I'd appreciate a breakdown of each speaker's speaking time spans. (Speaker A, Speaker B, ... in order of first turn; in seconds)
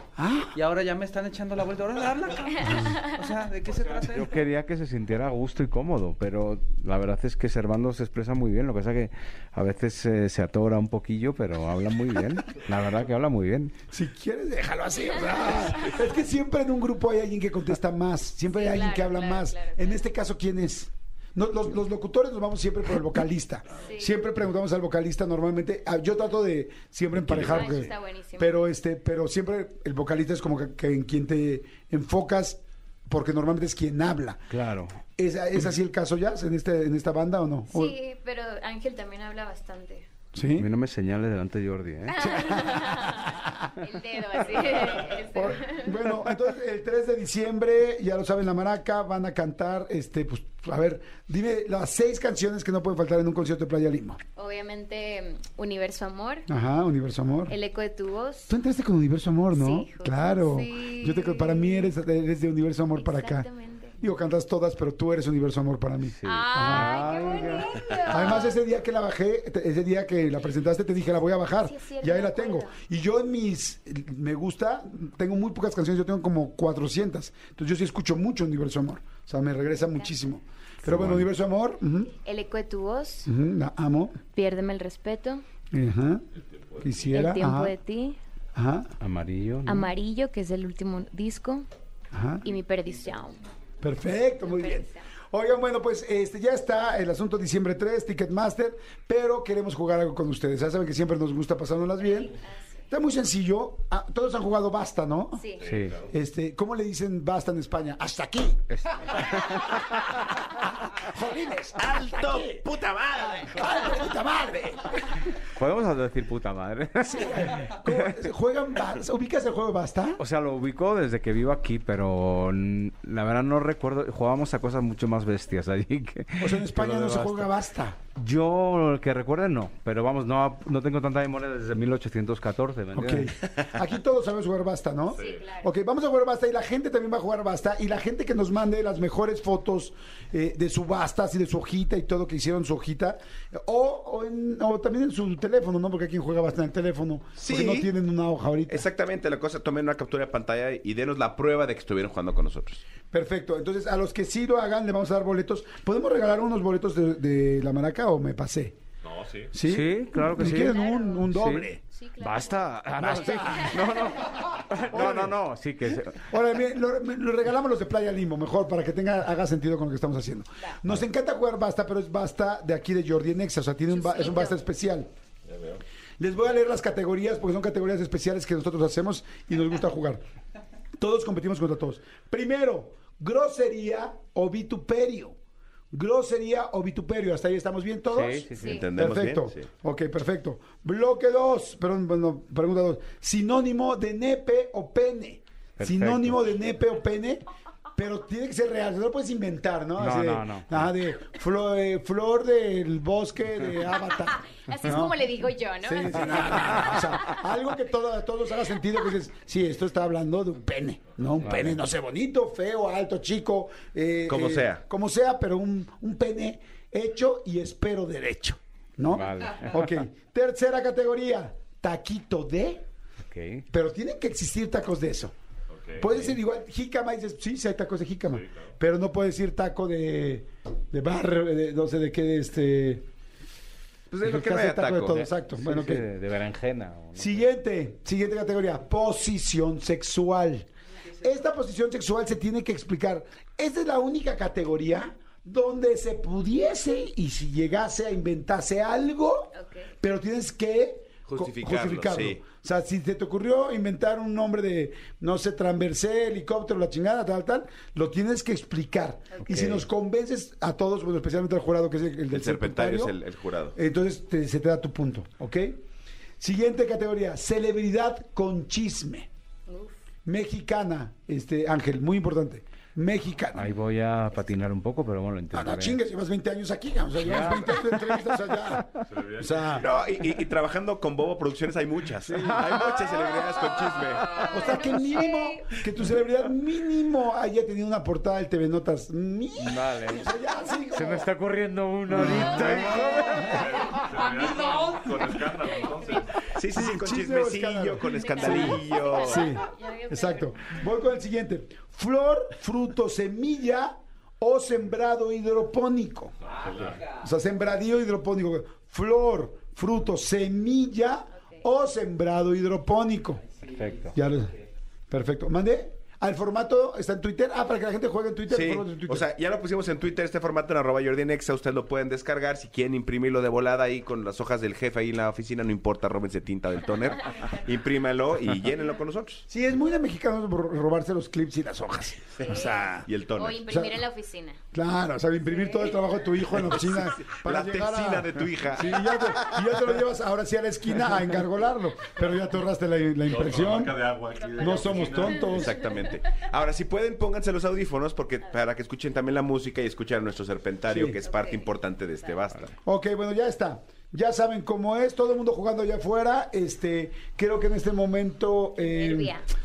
Speaker A: 0.2-0.6, 13.9-34.4, 35.1-37.9, 40.3-40.7, 42.2-43.1, 44.6-54.2, 56.5-57.5, 58.5-63.5, 64.0-82.1, 83.2-84.2, 85.7-86.2, 86.8-87.7, 88.5-88.9, 92.1-92.5, 93.8-102.3, 102.9-105.5, 106.1-108.6, 110.9-112.7, 113.4-115.2, 117.0-120.2, 126.4-128.0, 132.9-148.8, 153.1-158.8, 159.5-161.8, 163.0-163.8, 164.9-165.4, 166.0-175.1, 176.2-180.2, 181.0-185.4, 185.9-197.4, 198.0-205.2, 205.8-222.8, 223.7-225.3, 226.0-233.1, 234.2-236.1, 237.2-240.7, 241.2-263.2, 263.7-265.8, 266.4-269.3, 270.2-273.7, 275.5-279.9, 284.5-291.3, 292.1-294.0, 296.7-306.3, 307.2-313.4, 314.1-314.5, 315.1-319.3, 329.5-333.1, 333.7-334.0, 334.7-345.8, 350.9-351.2, 352.8-359.4
Speaker B: 0.5-4.4, 294.6-294.9, 306.8-307.2, 313.5-314.1
Speaker C: 2.6-3.1, 18.5-20.0, 23.8-24.2, 27.3-28.5, 37.7-40.1, 42.1-46.0, 54.4-56.5, 57.5-58.5, 59.5-61.9, 63.0-64.0, 66.2-68.6, 71.6-72.7, 82.2-83.3, 84.3-85.4, 87.1-88.2, 89.7-91.7, 92.4-93.4, 94.4-95.1, 102.3-102.8, 105.3-105.6, 135.1-135.7, 160.4-161.3, 161.9-164.3, 173.9-174.6, 188.5-188.9, 204.7-207.4, 249.5-249.9, 259.3-259.6, 269.7-269.9, 284.4-285.6, 294.0-294.9, 295.9-296.4, 298.1-300.8, 311.3-311.6, 327.3-327.6, 332.5-334.6, 335.4-336.0, 344.4-345.7, 351.2-351.7, 358.8-359.4
Speaker D: 3.8-13.8, 34.5-35.0, 40.6-42.5, 66.0-67.8, 80.8-81.3, 89.0-89.9, 105.6-105.9, 108.7-110.1, 115.5-118.1, 120.2-127.5, 128.2-133.3, 159.6-161.7, 162.2-166.2, 188.1-188.8, 195.8-196.4, 200.0-200.9, 211.4-211.8, 219.1-219.9, 223.2-223.7, 235.0-237.4, 259.4-259.8, 273.5-276.0, 277.2-278.2, 282.3-283.0, 289.6-290.3, 290.9-293.6, 313.7-314.1
Speaker E: 86.3-87.1, 105.6-106.1, 135.1-135.4, 159.0-159.5, 175.4-175.8, 225.7-226.3, 228.3-228.7, 279.1-280.0, 293.4-296.5, 306.4-307.1, 343.2-345.6
Speaker F: 111.8-113.6, 147.4-147.9, 148.7-152.8, 188.6-189.7, 214.3-214.8, 234.1-235.2, 251.3-252.4, 262.3-263.8, 279.7-284.5, 296.5-299.6, 318.5-329.4, 333.0-333.6, 336.5-339.6, 345.4-352.8